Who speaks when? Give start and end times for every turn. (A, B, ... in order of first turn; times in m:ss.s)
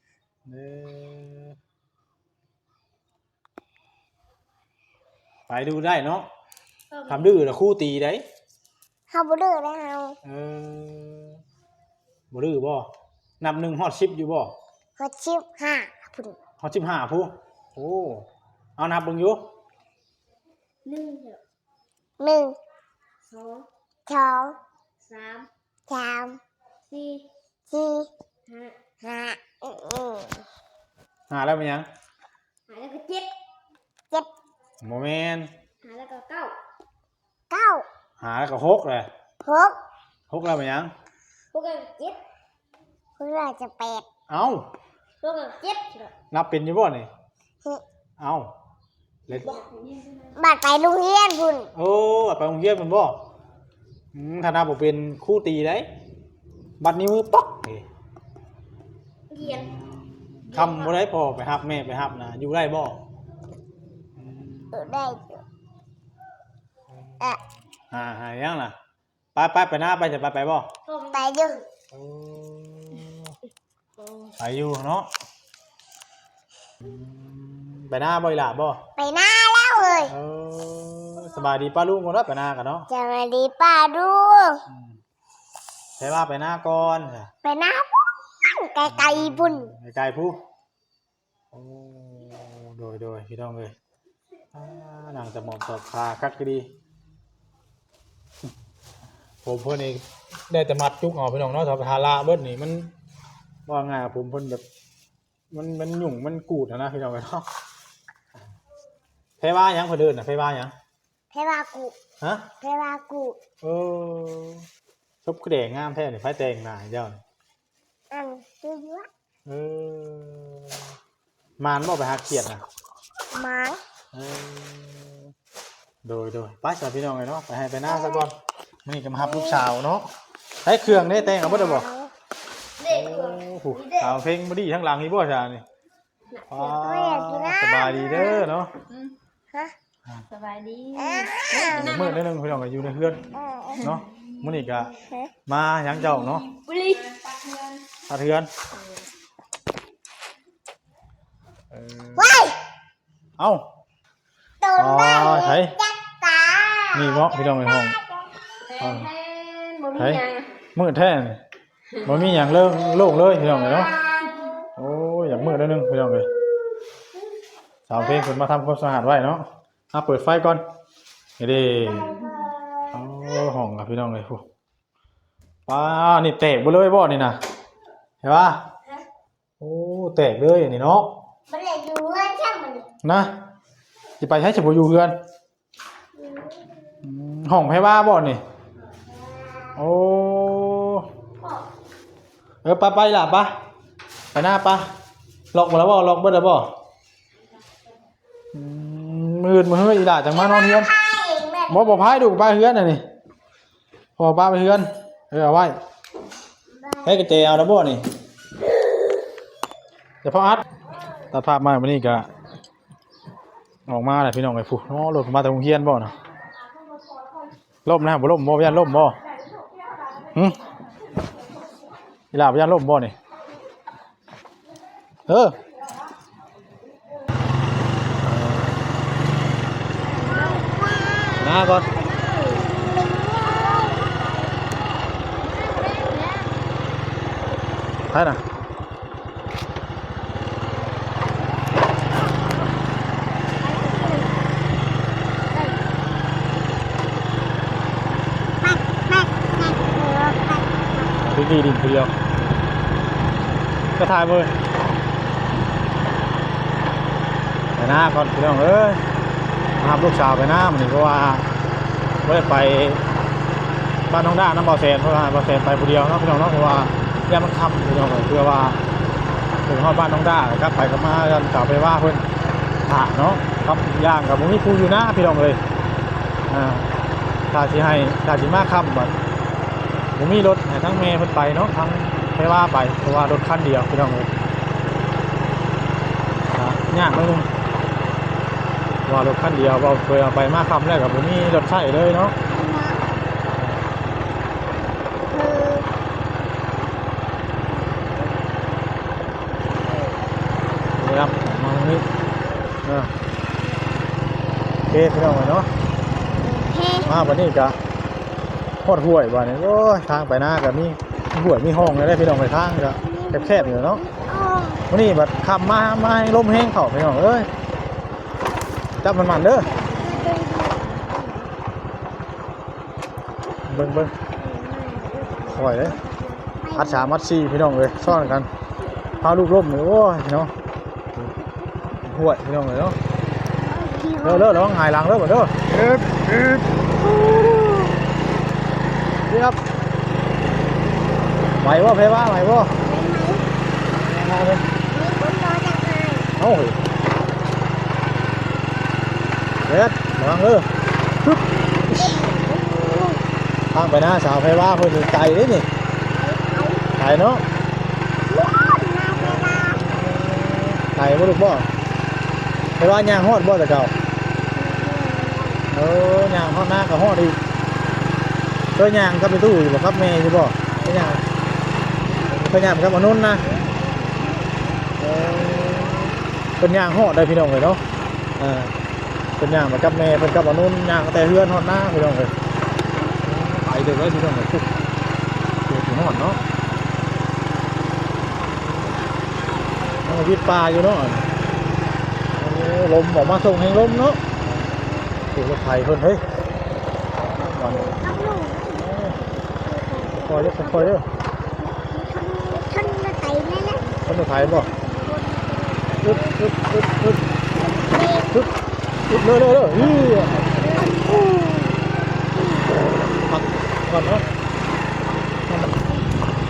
0:00.4-0:01.6 A
0:05.5-0:06.3 A
0:06.9-0:07.4 B
0:07.1-0:08.2 A
0:09.1-0:10.2 C
0:10.2-0:11.4 A
0:12.3-0:14.5 A
0:15.0-0:16.4 C
0:16.6-0:18.2 A
0:18.8-0:19.4 A
0:20.8-0:21.4 B
0:22.2-0:22.6 C
0:23.3-0:23.6 B
0:24.1-0:24.6 C
0:25.0-0:25.5 B
0:25.9-0:26.4 C
0:26.9-0:27.3 B
0:27.7-0:28.1 C
0:28.5-0:28.7 B
0:29.0-0:30.5 C
0:31.3-0:31.9 A
0:32.7-0:33.3 B
0:34.8-0:35.5 A
0:35.8-0:36.6 B
0:37.5-0:37.8 C
0:38.2-0:39.1 A
0:39.4-0:39.8 C
0:40.3-0:40.9 A
0:41.5-0:42.2 B
0:43.2-0:44.0 C
0:44.3-0:44.6 A
0:45.2-0:46.1 B
0:46.3-0:47.1 A
0:48.2-0:48.5 A
0:49.3-0:49.6 A
0:49.4-0:50.3 B
0:50.3-0:51.7 C
0:51.7-0:53.2 A
0:54.1-0:55.9 A
0:56.8-0:57.8 A
0:59.3-0:59.7 B
0:59.4-1:03.0 A
1:00.5-1:00.9 B
1:04.2-1:04.8 A
1:04.7-1:05.4 C
1:07.9-1:08.8 A
1:09.3-1:10.7 A
1:10.9-1:11.5 B
1:11.1-1:11.6 C
1:11.9-1:13.3 A
1:14.4-1:15.1 A
1:16.8-1:18.8 A
1:19.0-1:20.1 C
1:20.0-1:22.9 A
1:22.9-1:24.6 C
1:24.7-1:25.0 A
1:26.0-1:27.3 A
1:27.4-1:29.7 C
1:28.8-1:30.4 A
1:31.5-1:33.7 A
1:34.5-1:36.7 A
1:39.4-1:42.9 A
1:43.7-1:44.6 A
1:45.5-1:47.5 A
1:49.4-1:50.7 A
1:51.3-1:52.0 C
1:52.2-1:52.5 A
1:52.6-1:53.4 C
1:53.6-1:54.7 A
1:55.2-1:57.2 A
1:58.1-1:59.1 C
1:59.4-2:00.8 A
2:01.6-2:02.6 A
2:03.3-2:03.8 C
2:04.1-2:05.3 A
2:06.0-2:10.1 A
2:07.8-2:08.2 C
2:09.2-2:09.6 C
2:10.6-2:11.9 A
2:10.9-2:12.1 C
2:12.8-2:14.1 B
2:12.8-2:15.6 A
2:16.3-2:16.7 B
2:16.5-2:18.8 A
2:16.7-2:18.5 C
2:20.3-2:22.2 B
2:21.0-2:22.0 C
2:21.7-2:23.3 A
2:23.3-2:23.9 C
2:23.8-2:24.8 B
2:23.8-2:24.9 A
2:25.5-2:26.5 A
2:26.0-2:27.8 B
2:28.1-2:28.5 A
2:31.7-2:32.4 A
2:32.2-2:32.5 C
2:33.4-2:33.6 A
2:34.6-2:38.4 C
2:34.8-2:35.7 A
2:36.9-2:38.0 A
2:38.7-2:40.5 B
2:38.8-2:39.1 A
2:40.0-2:40.2 A
2:40.7-2:41.4 A
2:42.0-2:43.9 A
2:43.1-2:44.6 C
2:44.8-2:46.3 A
2:47.9-2:50.6 A
2:51.4-2:52.2 A
2:51.6-2:53.6 C
2:52.9-2:54.4 A
2:55.7-2:57.4 A
2:58.2-2:58.6 A
2:59.6-3:01.2 A
3:01.5-3:02.9 C
3:03.0-3:03.4 A
3:04.2-3:05.2 A
3:06.2-3:06.8 C
3:07.0-3:08.4 A
3:09.0-3:09.7 C
3:09.8-3:11.1 A
3:12.6-3:13.6 A
3:14.3-3:14.9 A
3:15.5-3:16.7 A
3:18.5-3:20.9 A
3:20.3-3:22.1 C
3:21.7-3:23.0 A
3:24.2-3:25.8 A
3:26.7-3:27.5 C
3:27.0-3:28.0 A
3:30.2-3:30.6 A
3:31.3-3:32.3 A
3:33.9-3:36.1 A
3:37.8-3:39.2 A
3:40.3-3:40.6 A
3:42.3-3:43.1 A
3:45.3-3:45.6 A
3:48.2-3:48.8 A
3:50.1-3:50.6 B
3:50.2-3:51.8 C
3:51.4-3:51.9 A
3:51.6-3:53.0 B
3:52.7-3:54.3 C
3:55.4-3:56.5 B
3:58.1-3:58.4 A
4:03.6-4:04.4 B
4:03.8-4:04.1 C
4:05.5-4:05.8 B
4:08.6-4:11.2 C
4:11.2-4:12.1 A
4:14.0-4:14.5 A
4:17.8-4:19.0 A
4:19.8-4:21.5 A
4:22.2-4:23.0 A
4:24.1-4:28.8 A
4:29.7-4:32.2 A
4:32.8-4:35.6 A
4:36.5-4:36.9 A
4:37.5-4:39.2 A
4:40.2-4:44.3 A
4:46.5-4:47.5 A
4:49.1-4:52.4 A
4:52.5-4:53.0 C
4:53.5-4:53.8 A
4:55.3-4:55.9 C
4:57.8-4:58.4 C
4:59.7-5:00.2 C
5:01.0-5:02.1 A
5:02.8-5:03.1 A
5:04.9-5:05.7 A
5:06.4-5:07.3 C
5:07.0-5:07.8 A
5:08.8-5:14.0 A
5:13.0-5:14.8 C
5:14.9-5:17.5 A
5:19.0-5:19.7 A
5:19.6-5:21.3 B
5:20.0-5:21.5 C
5:23.7-5:24.1 A
5:24.4-5:27.1 C
5:25.2-5:26.2 B
5:25.5-5:26.0 A
5:26.7-5:28.5 A
5:29.2-5:30.5 A
5:32.0-5:33.0 A
5:33.7-5:34.7 C
5:34.2-5:37.9 A
5:39.3-5:39.6 A
5:41.6-5:42.7 A
5:42.7-5:43.5 C
5:44.0-5:44.6 A
5:44.9-5:46.3 C
5:46.4-5:46.8 A
5:49.7-5:50.7 A
5:51.2-5:52.3 A
5:51.9-5:53.2 C
5:53.7-5:55.7 A
5:56.2-5:56.9 C
5:57.0-5:57.4 A
5:58.3-5:59.8 C
5:59.1-6:01.7 A
6:02.8-6:03.9 A
6:04.5-6:05.6 C
6:05.7-6:07.4 A
6:08.7-6:11.2 A
6:12.3-6:13.5 A
6:13.5-6:14.4 C
6:15.0-6:17.8 A
6:18.4-6:18.7 A
6:19.4-6:22.3 A
6:23.2-6:24.7 A
6:25.6-6:26.4 A
6:30.0-6:31.3 A
6:32.3-6:34.2 A
6:35.3-6:36.2 A
6:37.5-6:37.9 A
6:37.5-6:38.7 C
6:38.8-6:39.2 A
6:39.2-6:41.0 C
6:40.2-6:41.0 A
6:41.9-6:46.4 C
6:44.0-6:44.7 A
6:46.0-6:47.2 A
6:47.6-6:48.3 C
6:49.1-6:50.5 A
6:50.3-6:52.7 C
6:53.3-6:54.2 A
6:55.5-6:55.7 A